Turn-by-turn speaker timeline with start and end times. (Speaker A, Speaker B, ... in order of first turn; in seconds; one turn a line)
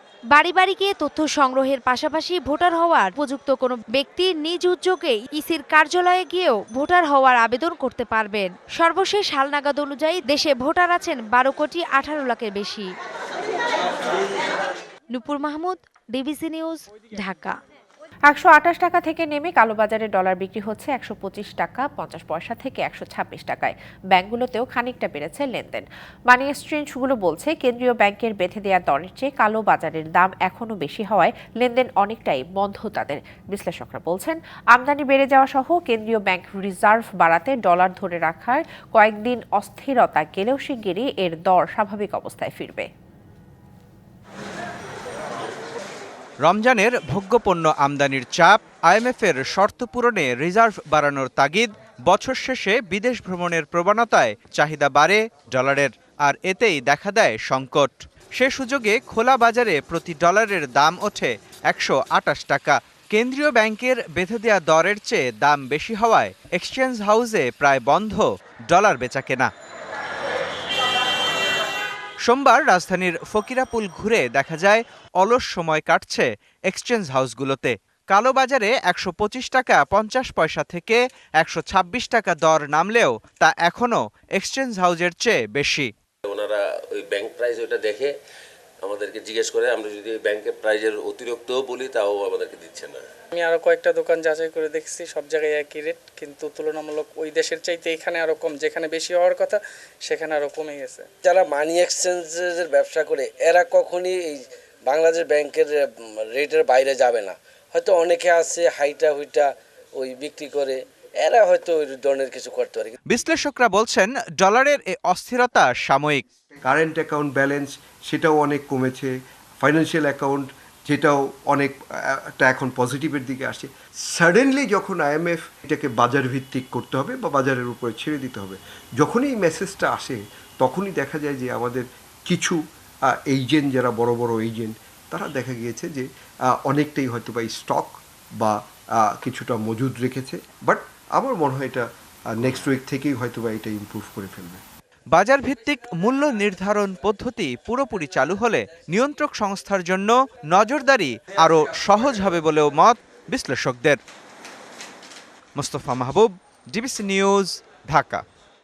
Speaker A: 0.3-12.9
Speaker A: 15.1-17.6
Speaker B: 18.3-42.9
Speaker C: 46.4-69.5
Speaker C: 72.2-85.9
Speaker D: 86.3-88.1
Speaker D: 88.8-93.0
Speaker E: 88.9-89.8
Speaker F: 93.3-101.1
Speaker E: 101.2-105.7
Speaker E: 106.3-109.5
Speaker E: 110.0-112.9
Speaker C: 113.1-116.2
Speaker G: 116.6-144.6
Speaker C: 145.1-154.0
Speaker C: 155.6-158.2